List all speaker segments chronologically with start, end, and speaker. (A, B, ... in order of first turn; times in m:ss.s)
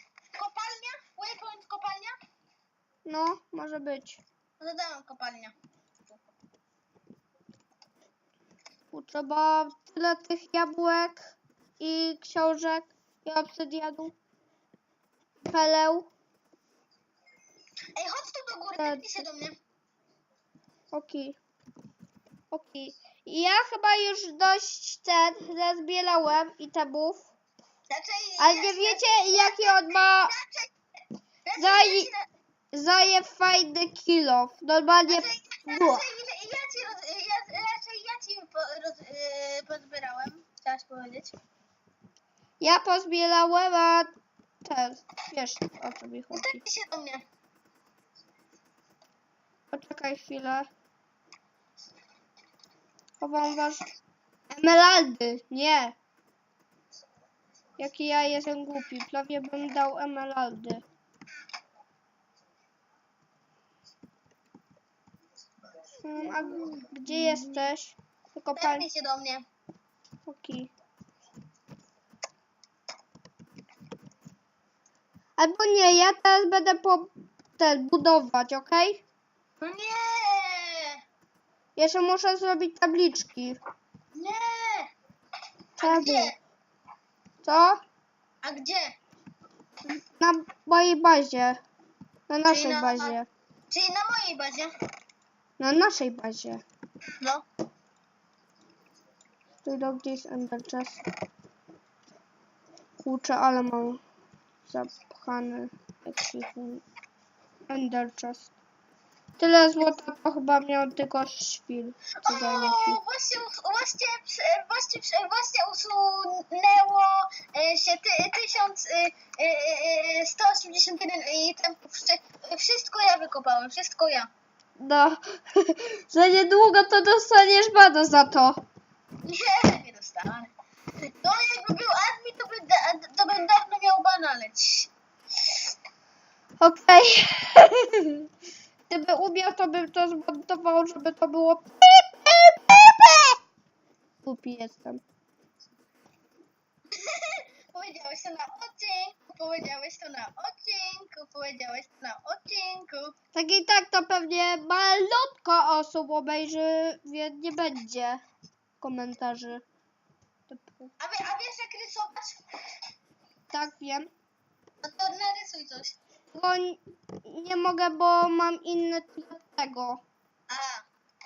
0:00.3-0:02.1 A
0:03.0-0:04.2 B
0:04.6-0:05.5 A
0:08.9-0:14.2 B
0:15.5-0:16.1 B
0:18.0-0:19.6 A
0:18.8-0:19.1 B
0:20.9-0:21.4 B
0:22.5-0:27.2 B
0:27.9-0:30.7 A
0:28.4-0:30.3 B
0:31.4-0:32.2 A
0:31.6-0:32.1 B
0:32.7-0:36.0 B
0:35.1-0:41.4 A
0:42.6-0:44.1 B
0:44.6-0:46.6 B
0:46.3-0:47.2 A
0:49.7-0:50.7 B
0:53.2-0:53.8 B
0:54.5-0:56.0 B
0:57.8-1:00.8 B
1:06.0-1:08.8 B
1:07.1-1:07.7 A
1:08.6-1:09.4 A
1:10.2-1:10.7 B
1:15.4-1:19.0 B
1:19.6-1:21.0 A
1:21.8-1:23.6 B
1:24.1-1:24.9 A
1:25.8-1:26.4 A
1:25.8-1:26.3 B
1:27.4-1:27.8 B
1:28.4-1:29.0 A
1:29.8-1:31.6 B
1:32.3-1:33.3 B
1:32.5-1:33.2 A
1:33.7-1:34.7 A
1:35.6-1:36.6 B
1:37.2-1:37.4 A
1:39.6-1:41.0 B
1:43.0-1:44.0 B
1:44.6-1:46.8 B
1:47.7-1:48.5 B
1:49.4-1:53.0 B
1:52.2-2:04.3 A
2:04.8-2:08.6 B
2:09.2-2:10.5 A
2:11.2-2:14.9 A
2:16.6-2:18.3 B
2:18.9-2:23.4 B
2:24.2-2:25.0 B
2:27.0-2:33.1 A
2:33.3-2:38.2 B
2:38.8-2:39.6 B
2:40.5-2:40.9 B
2:41.0-2:42.4 A
2:43.5-2:44.1 B
2:44.8-2:46.0 A
2:46.3-2:50.0 B
2:50.5-2:50.8 A